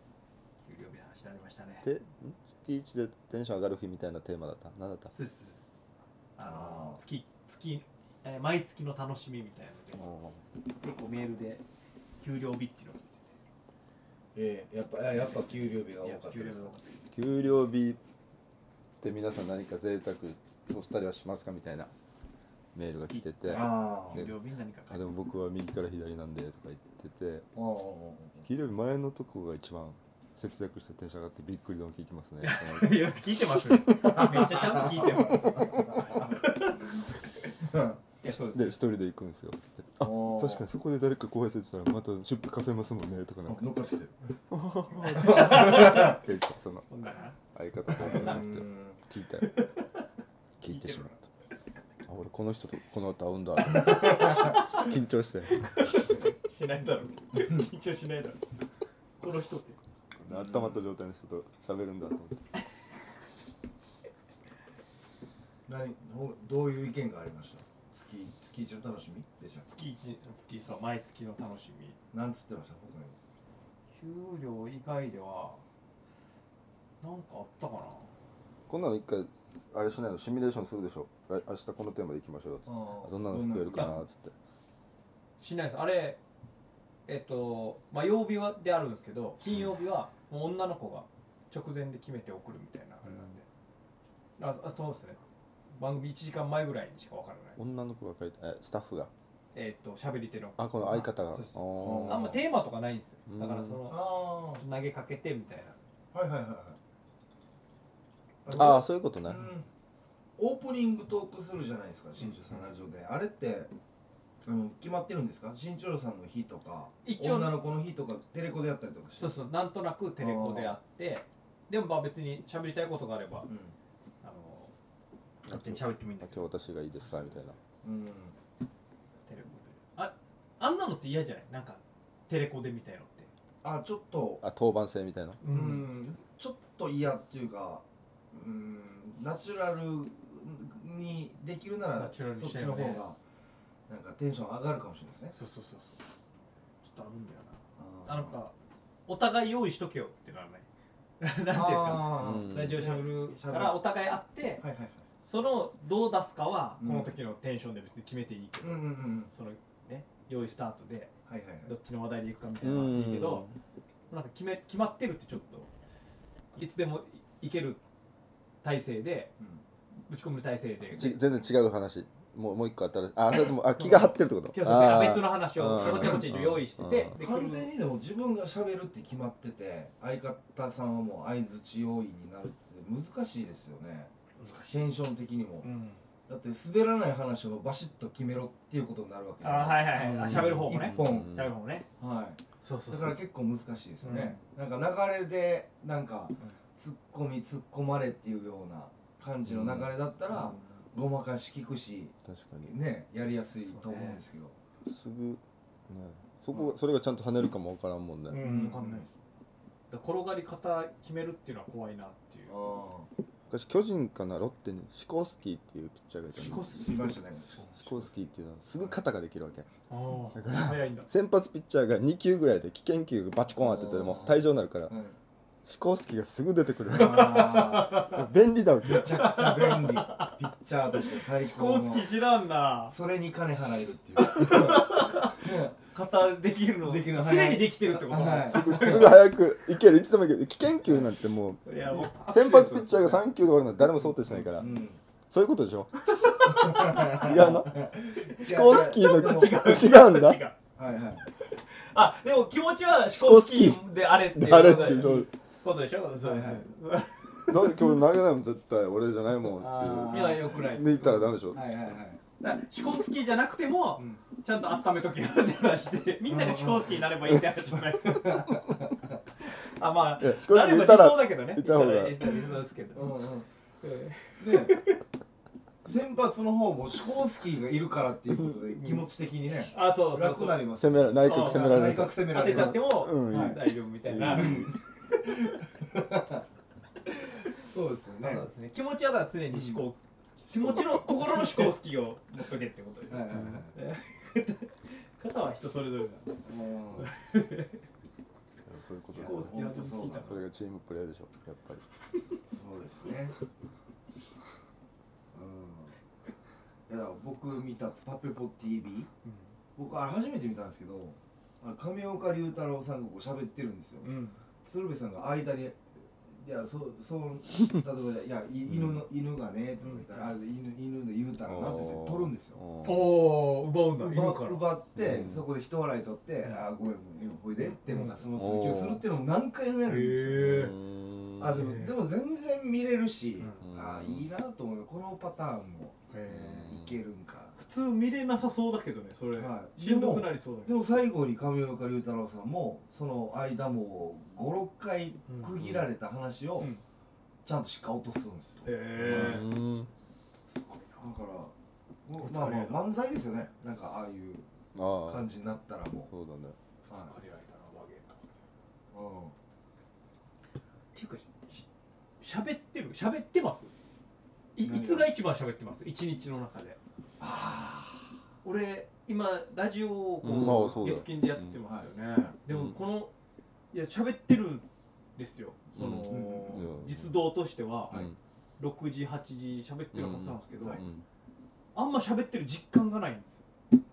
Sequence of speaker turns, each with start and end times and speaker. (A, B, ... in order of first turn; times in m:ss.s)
0:00.6-0:01.9 A
0:01.8-0:05.1 B
0:05.1-0:05.6 A
0:06.4-0:10.0 A
0:06.4-0:07.0 C
0:09.9-0:10.4 B
0:10.8-0:11.6 A
0:12.2-0:13.1 A
0:14.3-0:16.8 C
0:15.1-0:16.8 A
0:17.1-0:18.0 B
0:19.0-0:21.9 B
0:22.7-0:24.3 B
0:23.0-0:25.1 A
0:23.5-0:24.2 C
0:24.9-0:27.5 B
0:27.6-0:28.4 C
0:28.4-0:33.0 B
0:32.4-0:37.1 A
0:33.9-0:36.5 C
0:34.1-0:34.5 B
0:35.0-0:35.8 B
0:37.6-0:38.0 C
0:38.2-0:38.8 A
0:38.2-0:43.8 B
0:40.0-0:40.6 C
0:43.5-0:44.1 C
0:44.5-0:46.9 B
0:45.1-0:46.2 C
0:45.1-0:46.2 A
0:46.9-0:47.4 A
0:47.5-0:49.5 B
0:47.9-0:49.0 C
0:49.4-0:50.0 A
0:50.6-0:51.2 B
0:50.6-0:51.1 A
0:52.1-0:55.6 B
0:53.7-0:54.9 A
0:53.8-0:54.5 C
0:55.5-0:58.4 A
0:57.3-0:57.7 C
0:59.2-0:59.8 A
1:00.2-1:02.4 B
1:00.3-1:00.8 C
1:05.7-1:09.7 C
1:09.7-1:12.0 A
1:12.1-1:13.2 C
1:13.9-1:15.6 A
1:17.0-1:18.1 A
1:18.7-1:24.3 B
1:22.6-1:24.0 C
1:25.4-1:26.2 A
1:27.1-1:33.4 A
1:34.4-1:35.2 A
1:35.7-1:37.6 A
1:37.6-1:39.1 B
1:39.5-1:45.8 A
1:40.6-1:42.4 B
1:41.8-1:42.4 C
1:43.3-1:43.8 B
1:43.9-1:44.6 C
1:46.1-1:46.8 C
1:48.4-1:49.6 C
1:48.5-1:49.5 B
1:50.4-1:53.7 C
1:52.2-1:52.5 A
1:54.4-1:59.4 C
1:57.0-1:57.6 A
1:59.2-2:03.5 A
2:00.2-2:00.8 C
2:03.5-2:03.7 C
2:04.2-2:04.7 A
2:05.4-2:07.3 A
2:05.5-2:07.6 B
2:07.8-2:08.3 C
2:09.2-2:13.3 A
2:13.6-2:14.4 C
2:14.4-2:15.4 B
2:15.4-2:15.9 A
2:15.4-2:23.2 C
2:22.0-2:23.0 A
2:23.9-2:25.3 C
2:25.3-2:25.9 A
2:26.8-2:28.5 A
2:27.8-2:28.4 C
2:29.1-2:30.6 A
2:31.2-2:34.6 A
2:31.5-2:33.8 C
2:32.2-2:32.8 B
2:34.6-2:35.1 C
2:35.2-2:41.1 A
2:36.8-2:37.2 C
2:38.6-2:39.3 C
2:41.3-2:41.7 C
2:41.6-2:43.4 A
2:42.6-2:43.6 B
2:44.1-2:45.7 A
2:46.5-2:47.8 A
2:48.6-2:49.3 A
2:50.1-2:51.2 A
2:50.9-2:57.2 B
2:53.7-2:57.7 A
2:55.8-2:56.2 C
2:57.2-3:04.1 C
3:04.4-3:04.8 A
3:04.7-3:05.7 C
3:05.6-3:06.0 A
3:06.3-3:11.4 C
3:09.4-3:11.9 A
3:10.0-3:11.5 B
3:12.0-3:22.1 C
3:12.6-3:13.2 A
3:14.0-3:14.4 A
3:19.4-3:19.9 B
3:20.3-3:20.8 A
3:22.2-3:22.7 B
3:22.6-3:24.5 C
3:23.6-3:24.2 A
3:24.8-3:28.4 B
3:28.3-3:29.1 A
3:28.4-3:29.1 C
3:29.9-3:32.7 A
3:32.5-3:33.1 C
3:33.5-3:37.2 B
3:36.4-3:37.1 A
3:36.4-3:39.0 C
3:37.7-3:39.7 B
3:39.9-3:41.1 A
3:40.3-3:44.9 B
3:43.6-3:45.2 C
3:45.6-3:49.2 B
3:46.9-3:48.2 C
3:47.0-3:48.2 A
3:48.8-3:52.1 C
3:48.9-3:50.4 A
3:50.9-3:52.9 A
3:52.9-3:55.7 C
3:54.2-3:59.1 A
3:56.8-3:59.2 C
3:58.5-4:04.7 B
4:01.6-4:03.2 A
4:04.3-4:05.0 C
4:05.3-4:05.9 B
4:06.1-4:10.6 A
4:06.4-4:09.8 C
4:06.8-4:10.4 B
4:10.8-4:11.3 C
4:11.4-4:17.9 A
4:12.9-4:15.3 B
4:14.6-4:15.2 C
4:16.2-4:16.7 C
4:17.5-4:21.6 B
4:19.6-4:20.6 C
4:20.1-4:21.3 A
4:21.5-4:22.2 C
4:22.4-4:28.4 A
4:26.3-4:27.0 C
4:28.0-4:29.2 C
4:29.4-4:33.2 A
4:30.2-4:32.2 B
4:32.9-4:33.4 C
4:33.8-4:35.0 A
4:34.4-4:34.8 C
4:35.8-4:43.6 C
4:39.6-4:40.7 A
4:40.7-4:44.7 B
4:41.2-4:45.5 A
4:44.2-4:46.4 C
4:47.2-4:48.5 C
4:48.2-4:57.8 A
4:49.5-4:49.8 C
4:51.0-4:51.7 C
4:53.1-4:53.7 C
4:53.3-4:53.6 B
4:56.4-4:57.1 C
4:58.6-4:59.6 B
4:59.1-5:00.4 C
4:59.2-5:00.4 A
5:00.2-5:01.8 B
5:02.4-5:03.3 C
5:05.3-5:06.0 C
5:06.9-5:09.1 C
5:09.2-5:09.5 A
5:09.8-5:14.1 C
5:14.0-5:14.4 A
5:14.6-5:22.6 C
5:18.7-5:19.0 B
5:19.8-5:20.3 A
5:21.4-5:23.1 B
5:22.8-5:24.7 A
5:24.0-5:30.7 C
5:25.0-5:25.4 B
5:27.6-5:28.2 A
5:28.3-5:29.0 B
5:29.8-5:30.8 A
5:30.3-5:31.6 B
5:31.4-5:37.5 C
5:31.5-5:31.9 A
5:33.6-5:34.3 B
5:36.1-5:36.7 A
5:36.3-5:37.0 B
5:37.6-5:40.8 A
5:39.3-5:46.7 C
5:45.3-5:45.5 A
5:45.6-5:45.8 B
5:47.4-5:49.5 C
5:48.6-5:49.5 A
5:49.0-5:49.9 B
5:50.5-5:51.1 A
5:51.0-5:51.5 C
5:52.0-5:54.4 C
5:52.2-5:52.8 A
5:54.7-5:55.2 B
5:55.0-5:56.1 C
5:56.1-5:56.6 B
5:56.8-5:58.3 A
5:58.9-5:59.3 C
6:00.9-6:01.6 A
6:02.2-6:03.7 A
6:04.6-6:06.8 A
6:04.6-6:05.1 C
6:07.2-6:08.2 C
6:08.4-6:13.1 A
6:10.2-6:11.6 B
6:10.4-6:11.0 C
6:12.5-6:12.8 B
6:13.7-6:18.1 A
6:15.7-6:17.1 B
6:16.0-6:16.7 C
6:17.9-6:18.2 B
6:18.6-6:20.8 A
6:19.9-6:21.0 B
6:21.7-6:23.4 A